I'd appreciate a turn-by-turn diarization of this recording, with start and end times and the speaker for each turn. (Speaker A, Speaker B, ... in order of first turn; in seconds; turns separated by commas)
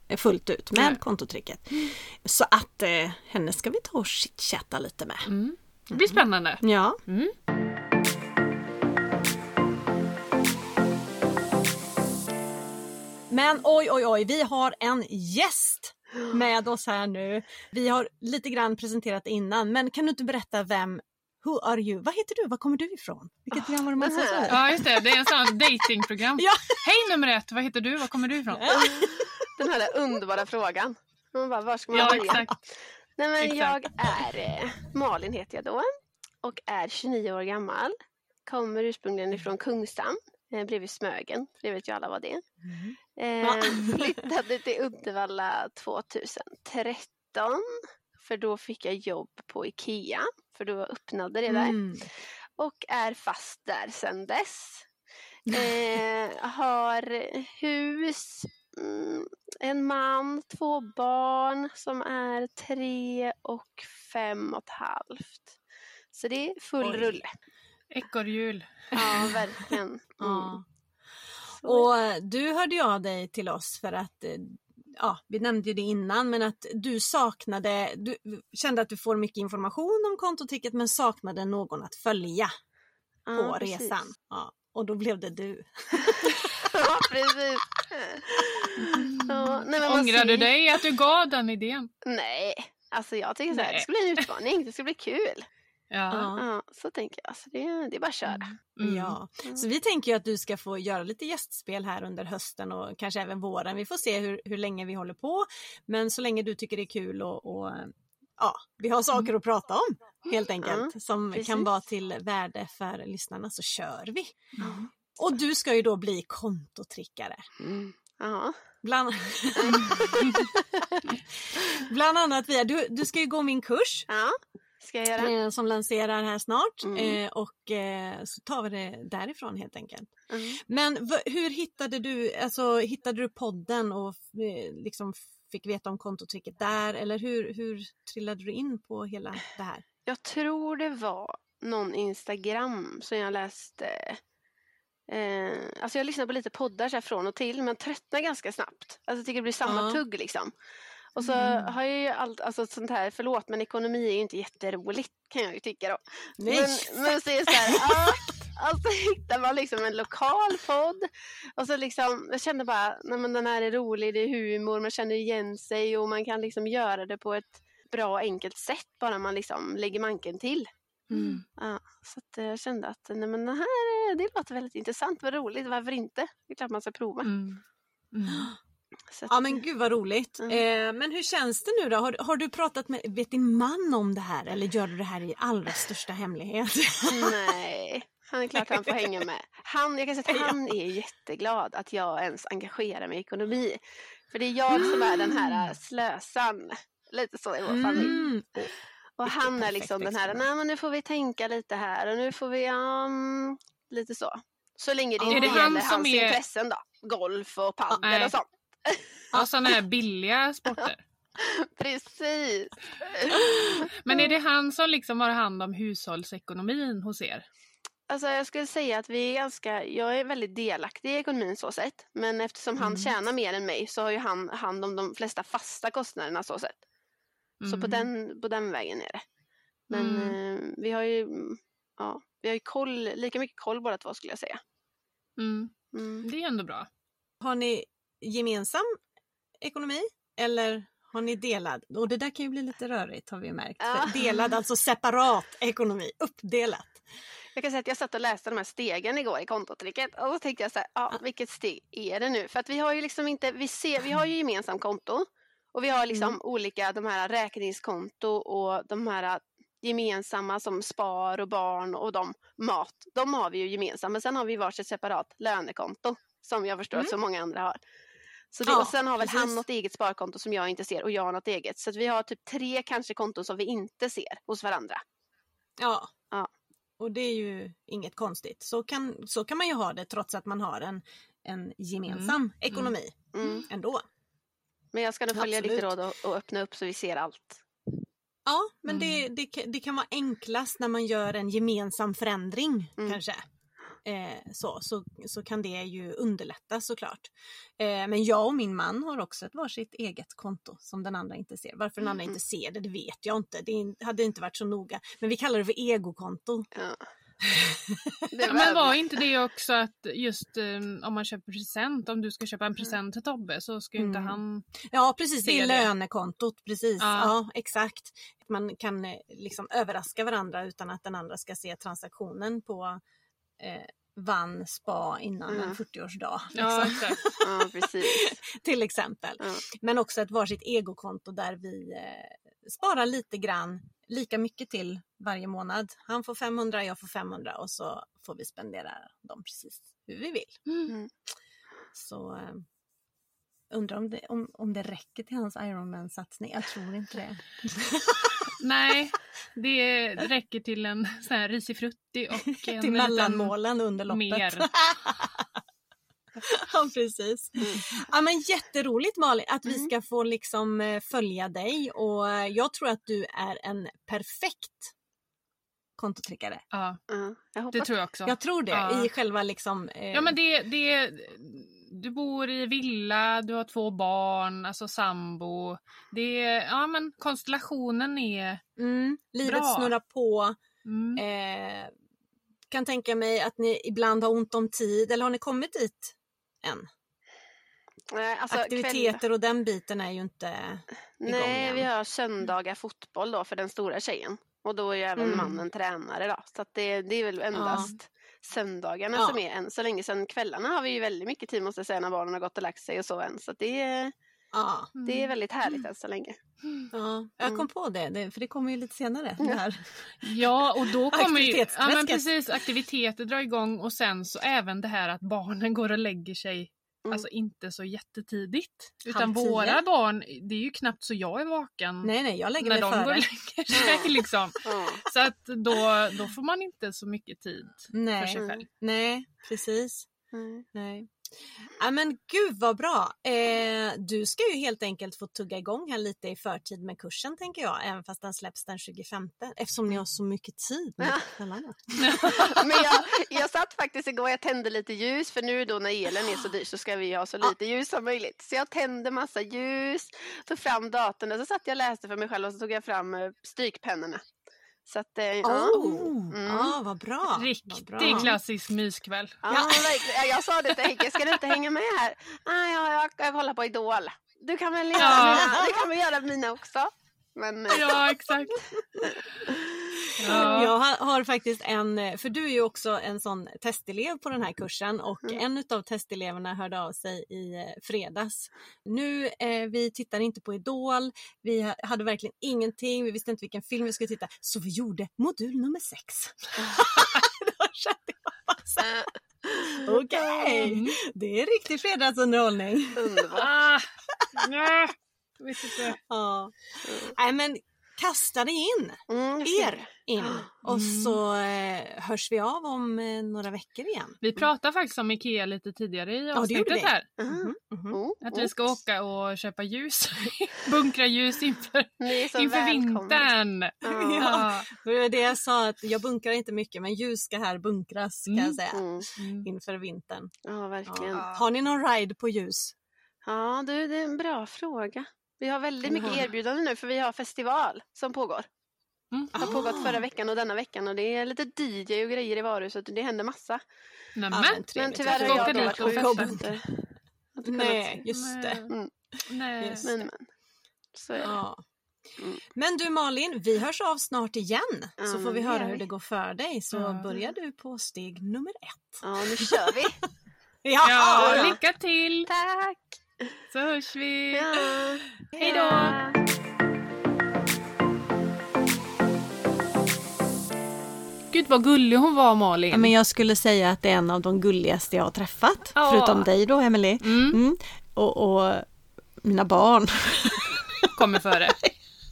Speaker A: 0.1-5.3, Speaker B: 0.7-1.0, Speaker B: 5.2-7.3, Speaker A: 5.9-7.0, Speaker A: 13.3-25.2, Speaker C: 24.0-24.6, Speaker B: 24.5-28.7, Speaker A: 26.4-26.9, Speaker A: 28.4-29.5, Speaker C: 28.7-32.5, Speaker B: 31.9-32.5, Speaker A: 32.0-32.5, Speaker C: 33.2-35.9, Speaker B: 33.4-33.9, Speaker C: 36.4-37.9, Speaker C: 38.5-42.4, Speaker A: 42.6-44.3, Speaker C: 43.1-51.8, Speaker A: 51.5-52.1, Speaker C: 52.6-54.8, Speaker C: 55.5-65.5, Speaker C: 66.1-67.3, Speaker A: 66.8-67.1, Speaker B: 67.9-68.9, Speaker A: 68.9-69.4, Speaker C: 68.9-70.6, Speaker A: 70.2-70.6, Speaker C: 71.6-71.9, Speaker A: 71.6-82.5, Speaker C: 83.3-84.0, Speaker A: 83.3-86.7, Speaker C: 86.2-90.5, Speaker A: 88.5-89.1, Speaker B: 88.8-91.9, Speaker C: 92.0-95.4, Speaker B: 93.5-94.3, Speaker B: 95.9-96.3, Speaker A: 96.1-96.4, Speaker C: 96.3-98.5, Speaker B: 98.3-99.2, Speaker A: 98.8-117.5, Speaker C: 110.6-111.7, Speaker C: 114.6-114.8, Speaker C: 117.6-118.6, Speaker A: 118.8-120.5, Speaker C: 119.6-121.1, Speaker A: 121.5-124.1, Speaker C: 124.1-125.3, Speaker A: 125.2-130.1, Speaker C: 126.8-127.2, Speaker C: 130.3-130.6, Speaker A: 130.7-139.8, Speaker C: 140.1-144.2, Speaker C: 145.1-150.5, Speaker A: 149.6-150.0, Speaker C: 151.2-170.7, Speaker B: 151.3-151.6, Speaker A: 156.4-158.3, Speaker B: 171.1-171.4, Speaker C: 171.6-177.3, Speaker B: 177.2-178.5, Speaker C: 179.1-179.5, Speaker A: 179.3-187.6, Speaker C: 187.1-198.2, Speaker A: 188.6-189.2, Speaker A: 190.3-190.6, Speaker A: 194.7-195.6, Speaker A: 197.7-198.7, Speaker C: 199.2-209.0, Speaker A: 199.2-200.4, Speaker A: 205.2-205.6, Speaker B: 205.3-206.4, Speaker B: 208.0-208.3, Speaker B: 209.3-211.0, Speaker C: 211.4-214.2, Speaker B: 213.3-217.4, Speaker C: 218.1-226.7, Speaker B: 222.8-223.1, Speaker B: 227.6-228.1, Speaker C: 227.7-229.2, Speaker B: 229.9-230.4, Speaker C: 229.9-234.6, Speaker B: 235.4-236.9, Speaker C: 235.9-236.3, Speaker A: 237.4-238.9, Speaker A: 239.6-247.0, Speaker C: 243.8-244.4, Speaker C: 247.5-267.8, Speaker A: 256.1-256.4, Speaker C: 268.5-275.0, Speaker A: 268.6-269.6, Speaker A: 275.8-276.1, Speaker A: 277.0-284.0, Speaker B: 282.1-283.6, Speaker C: 283.3-283.7, Speaker C: 284.9-287.6, Speaker A: 285.3-285.9, Speaker A: 288.4-293.4, Speaker B: 288.9-289.2, Speaker A: 294.0-306.7, Speaker C: 302.1-302.3, Speaker C: 306.7-307.0, Speaker A: 307.4-308.3, Speaker C: 308.3-309.0, Speaker B: 308.4-314.7, Speaker A: 314.0-323.0, Speaker B: 315.4-315.9, Speaker B: 317.0-317.3, Speaker A: 323.6-340.6, Speaker C: 325.5-325.8, Speaker B: 326.5-327.2, Speaker C: 327.3-328.4, Speaker B: 340.7-340.9, Speaker A: 341.9-342.6, Speaker A: 343.7-348.5, Speaker B: 348.6-353.5, Speaker A: 352.5-355.4, Speaker B: 354.1-354.7, Speaker A: 356.4-364.9, Speaker A: 366.0-366.6, Speaker B: 366.7-367.0, Speaker C: 367.1-367.9, Speaker B: 367.7-369.1, Speaker A: 368.2-370.4, Speaker B: 370.1-378.6, Speaker A: 378.8-380.6, Speaker B: 379.4-379.9, Speaker B: 380.8-381.2, Speaker A: 381.1-381.9, Speaker A: 382.7-386.9, Speaker C: 388.1-389.2, Speaker A: 388.5-391.9, Speaker C: 391.2-404.1, Speaker A: 395.2-395.5, Speaker B: 395.3-395.6, Speaker A: 397.5-397.9, Speaker A: 399.1-399.4, Speaker A: 404.5-404.9, Speaker B: 404.9-405.8, Speaker C: 405.0-406.4, Speaker B: 406.6-406.9, Speaker A: 406.9-412.4, Speaker B: 410.2-428.6, Speaker A: 419.1-419.8, Speaker A: 422.0-424.1, Speaker C: 423.7-424.0, Speaker C: 424.6-425.0, Speaker A: 427.9-430.1, Speaker C: 430.3-430.6, Speaker A: 430.7-431.1, Speaker A: 431.6-442.5, Speaker B: 441.9-442.9, Speaker C: 442.2-454.2, Speaker C: 454.9-456.8, Speaker A: 455.4-458.3, Speaker B: 457.3-459.4, Speaker C: 458.0-458.3, Speaker C: 459.4-468.3, Speaker A: 459.5-460.0, Speaker A: 464.9-465.8, Speaker B: 465.0-465.6, Speaker B: 467.7-468.6, Speaker A: 470.2-489.1, Speaker B: 470.2-470.7, Speaker C: 470.2-470.6, Speaker C: 488.8-490.6, Speaker A: 489.6-493.3, Speaker B: 490.5-491.0, Speaker C: 492.9-493.6, Speaker B: 493.3-496.0, Speaker A: 496.1-504.2, Speaker C: 496.9-497.1, Speaker C: 499.1-500.5, Speaker B: 500.7-501.2, Speaker B: 504.2-507.1, Speaker A: 506.3-508.0, Speaker C: 507.2-508.5, Speaker B: 508.2-514.6, Speaker C: 512.0-513.3, Speaker C: 513.8-514.5, Speaker A: 513.8-520.3, Speaker B: 518.3-518.6, Speaker C: 518.7-519.1, Speaker B: 519.2-519.5, Speaker C: 520.4-521.3, Speaker A: 520.9-522.7, Speaker B: 521.1-521.5, Speaker C: 523.2-528.5, Speaker A: 525.9-526.2, Speaker B: 529.1-529.7, Speaker A: 529.3-530.0, Speaker C: 529.4-533.6, Speaker B: 534.1-536.4, Speaker A: 534.3-536.6, Speaker C: 534.7-538.0, Speaker A: 537.4-538.7, Speaker B: 538.1-538.7, Speaker B: 539.3-540.1, Speaker A: 539.6-539.9, Speaker C: 539.8-540.2, Speaker C: 540.9-541.3, Speaker A: 541.2-541.6, Speaker A: 542.5-549.8, Speaker C: 545.0-545.8, Speaker B: 546.7-547.1, Speaker C: 549.0-550.0, Speaker A: 550.6-551.5, Speaker B: 550.8-552.3, Speaker C: 551.2-551.6, Speaker C: 552.3-553.3, Speaker B: 553.5-554.8, Speaker C: 554.3-556.2, Speaker A: 555.3-555.9, Speaker B: 555.4-555.9, Speaker B: 561.3-562.9, Speaker A: 562.7-568.7, Speaker B: 565.8-566.3, Speaker B: 567.0-567.4, Speaker A: 569.2-571.7, Speaker B: 570.9-571.6